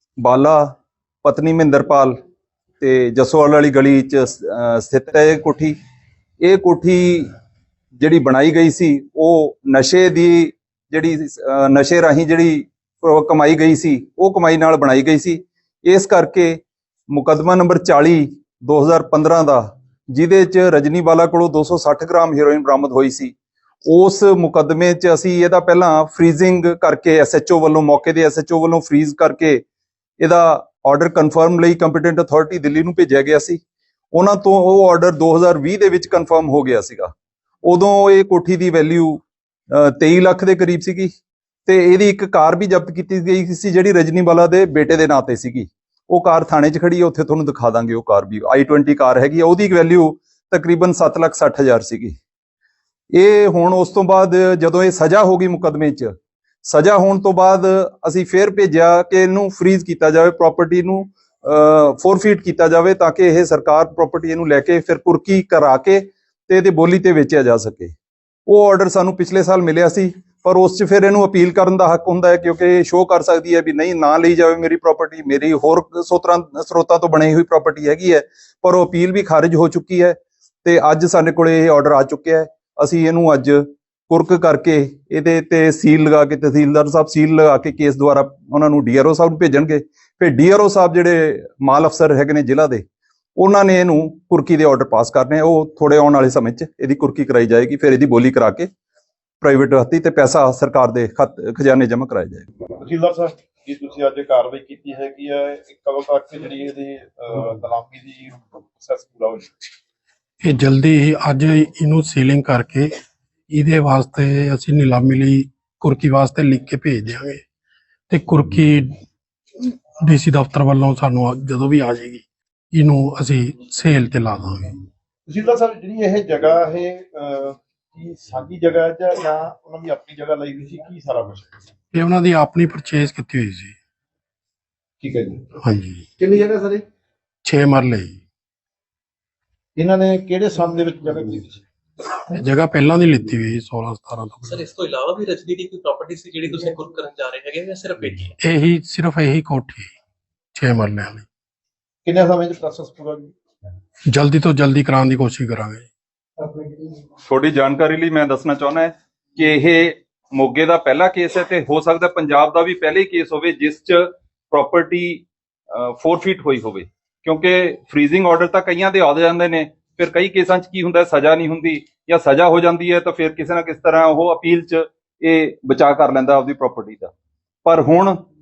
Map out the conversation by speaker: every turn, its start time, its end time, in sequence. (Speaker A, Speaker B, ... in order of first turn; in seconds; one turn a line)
Speaker A: 0.2-0.7
Speaker A: 1.2-2.1
Speaker A: 2.8-5.7
Speaker A: 6.4-7.3
Speaker A: 8.0-16.6
Speaker A: 17.1-23.4
Speaker A: 23.9-29.6
Speaker A: 30.2-33.6
Speaker A: 34.1-37.1
Speaker A: 37.7-41.1
Speaker A: 41.7-52.1
Speaker A: 53.1-56.1
Speaker A: 56.6-67.9
Speaker A: 68.5-92.8
Speaker A: 93.4-98.7
Speaker A: 99.4-102.5
Speaker B: 102.8-109.5
Speaker C: 110.4-112.9
Speaker C: 113.5-117.4
Speaker C: 118.1-119.0
Speaker C: 119.6-124.8
Speaker B: 125.3-131.6
Speaker C: 131.9-133.8
Speaker B: 135.0-135.5
Speaker C: 135.6-136.1
Speaker B: 136.2-136.8
Speaker C: 137.4-138.2
Speaker B: 139.8-141.6
Speaker C: 142.2-144.6
Speaker D: 144.5-148.3
Speaker C: 148.4-149.9
Speaker C: 150.5-151.3
Speaker B: 152.1-153.3
Speaker C: 154.1-155.9
Speaker B: 156.4-156.8
Speaker A: 157.3-177.1
Speaker A: 177.7-178.2